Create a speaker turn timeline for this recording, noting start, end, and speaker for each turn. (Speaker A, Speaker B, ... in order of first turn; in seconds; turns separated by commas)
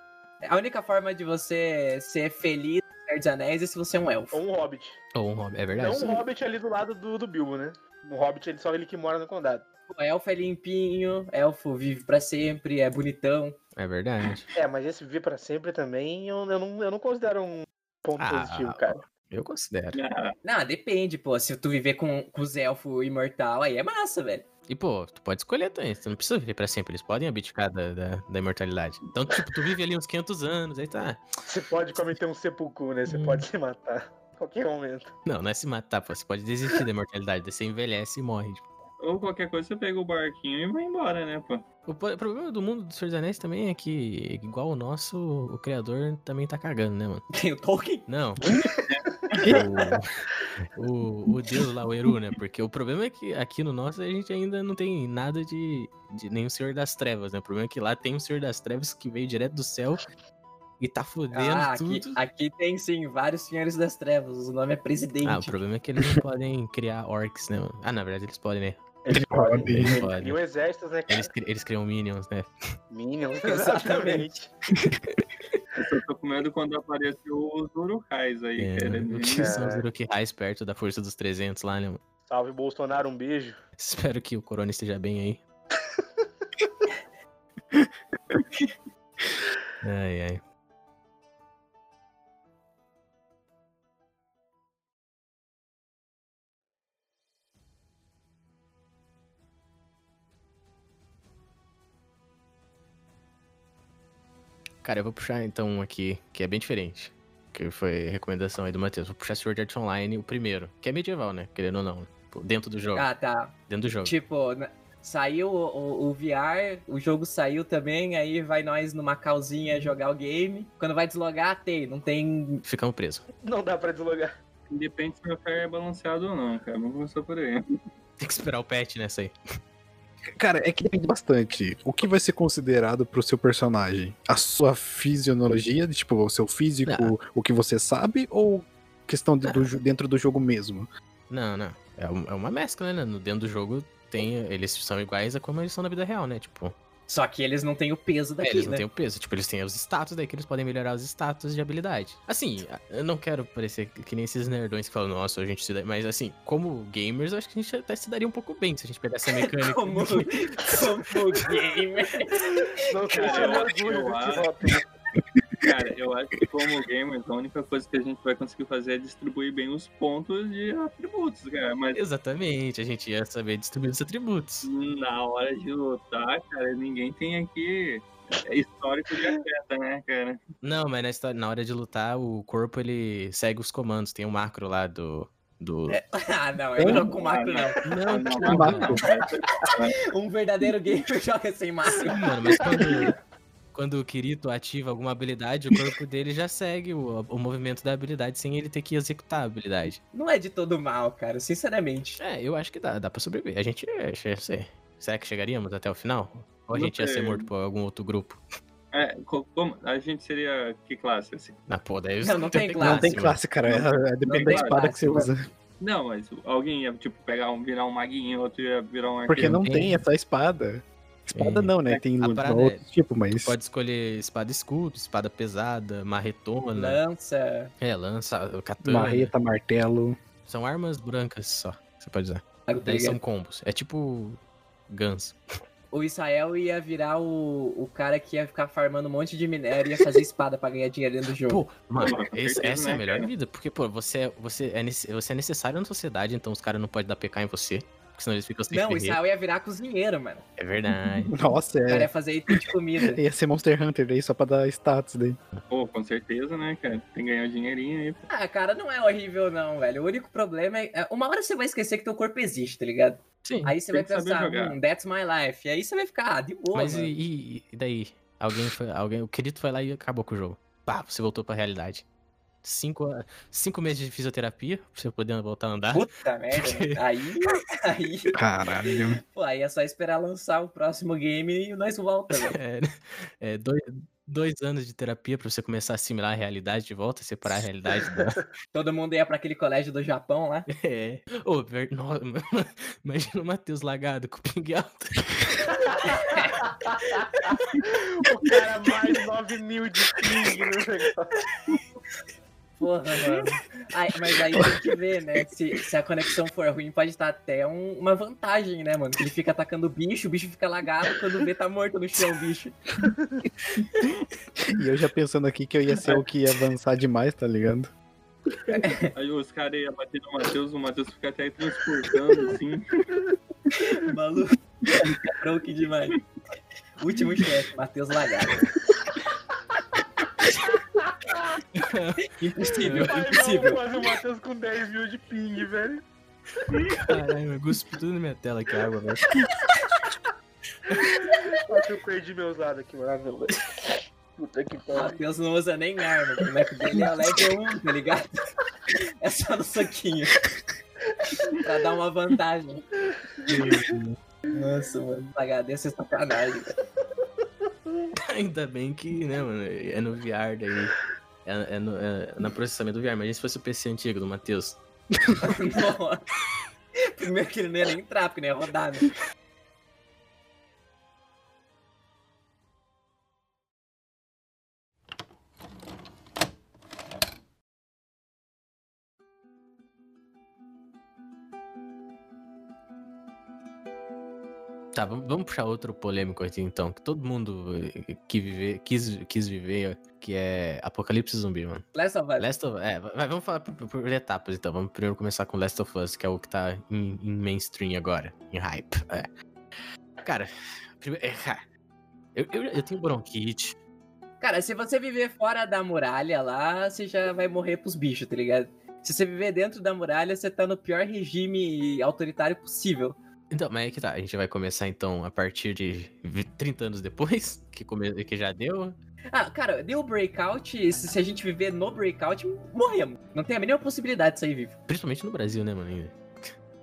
Speaker A: 0.4-4.4, Speaker B: 4.3-5.0, Speaker C: 5.1-6.2, Speaker B: 5.7-9.7, Speaker A: 9.9-13.6, Speaker C: 13.8-14.5, Speaker B: 14.5-19.0, Speaker C: 18.2-20.0, Speaker D: 19.9-20.3, Speaker A: 20.4-24.4, Speaker C: 24.7-31.2, Speaker B: 31.5-35.1, Speaker C: 33.1-33.4, Speaker C: 35.2-38.6, Speaker D: 39.0-41.6, Speaker C: 41.9-47.2, Speaker A: 47.3-48.1, Speaker C: 48.1-48.5, Speaker D: 48.9-49.4, Speaker E: 49.4-49.6, Speaker C: 49.4-60.0, Speaker C: 60.8-62.2, Speaker A: 61.3-65.6, Speaker C: 65.2-68.8, Speaker B: 69.0-71.3, Speaker E: 69.1-70.0, Speaker C: 69.4-70.4, Speaker C: 71.1-72.5, Speaker B: 72.9-74.5, Speaker A: 73.4-74.3, Speaker D: 75.7-79.5, Speaker C: 78.6-82.0, Speaker B: 79.3-79.8, Speaker B: 82.2-83.6, Speaker C: 83.8-85.4, Speaker C: 89.8-90.4, Speaker C: 104.8-113.1, Speaker A: 112.9-122.6, Speaker C: 113.7-114.1, Speaker C: 122.6-123.2, Speaker B: 123.4-124.3, Speaker D: 124.7-127.6, Speaker C: 128.2-129.3, Speaker E: 130.3-140.9, Speaker C: 136.8-137.1, Speaker C: 141.3-146.7, Speaker A: 147.1-148.8, Speaker C: 148.4-160.3, Speaker A: 159.4-162.7, Speaker B: 162.4-164.8, Speaker D: 163.1-164.5, Speaker D: 165.6-172.0, Speaker C: 171.9-174.7, Speaker D: 174.6-180.4, Speaker C: 180.6-186.0, Speaker A: 185.9-187.8, Speaker E: 186.8-187.1, Speaker D: 186.8-190.0, Speaker C: 187.8-189.0, Speaker E: 188.4-189.7, Speaker A: 190.1-192.9, Speaker C: 192.1-193.2, Speaker C: 193.7-200.0, Speaker A: 200.1-202.2, Speaker C: 202.2-208.4, Speaker D: 206.7-207.5, Speaker D: 208.9-211.6, Speaker C: 211.7-213.4, Speaker A: 212.2-213.3, Speaker E: 212.8-215.4, Speaker D: 213.6-215.2, Speaker A: 214.3-215.2, Speaker D: 215.8-219.6, Speaker E: 219.3-223.6, Speaker C: 219.3-220.0, Speaker C: 221.3-222.8, Speaker C: 223.4-227.0, Speaker A: 226.7-227.7, Speaker C: 227.8-229.3, Speaker E: 228.8-230.2, Speaker C: 230.4-235.4, Speaker A: 232.7-233.2, Speaker A: 235.9-241.6, Speaker C: 241.5-249.2, Speaker D: 242.0-243.3, Speaker A: 248.7-250.4, Speaker C: 250.6-251.3, Speaker E: 251.3-252.1, Speaker A: 251.9-253.2, Speaker E: 253.1-255.4, Speaker D: 255.7-258.2, Speaker A: 258.3-267.1, Speaker C: 263.4-263.8, Speaker D: 263.9-264.8, Speaker C: 266.7-272.1, Speaker C: 272.6-277.6, Speaker A: 275.9-278.3, Speaker E: 278.3-279.2, Speaker A: 279.3-282.6, Speaker C: 282.3-288.4, Speaker A: 288.7-290.7, Speaker C: 290.7-295.7, Speaker B: 295.7-297.2, Speaker B: 297.8-301.4, Speaker A: 302.8-312.8, Speaker B: 313.0-313.4, Speaker E: 314.6-317.9, Speaker A: 318.7-319.1, Speaker D: 319.1-323.1, Speaker A: 323.8-324.6, Speaker A: 325.2-326.2, Speaker A: 327.0-328.7, Speaker B: 330.7-331.6, Speaker C: 331.7-333.1, Speaker A: 332.3-333.8, Speaker B: 332.9-336.0, Speaker C: 336.9-339.3, Speaker C: 340.9-341.3, Speaker B: 341.5-345.2, Speaker A: 344.9-350.4, Speaker A: 351.6-352.9, Speaker C: 353.4-354.2, Speaker A: 354.5-356.8, Speaker C: 358.1-365.5, Speaker A: 365.4-366.2, Speaker A: 367.0-369.1, Speaker C: 384.9-391.9, Speaker A: 391.9-392.5, Speaker C: 392.4-399.3, Speaker C: 400.2-401.6, Speaker C: 402.3-403.8, Speaker A: 404.4-413.2, Speaker C: 413.5-419.0, Speaker A: 419.3-424.8, Speaker C: 424.9-426.5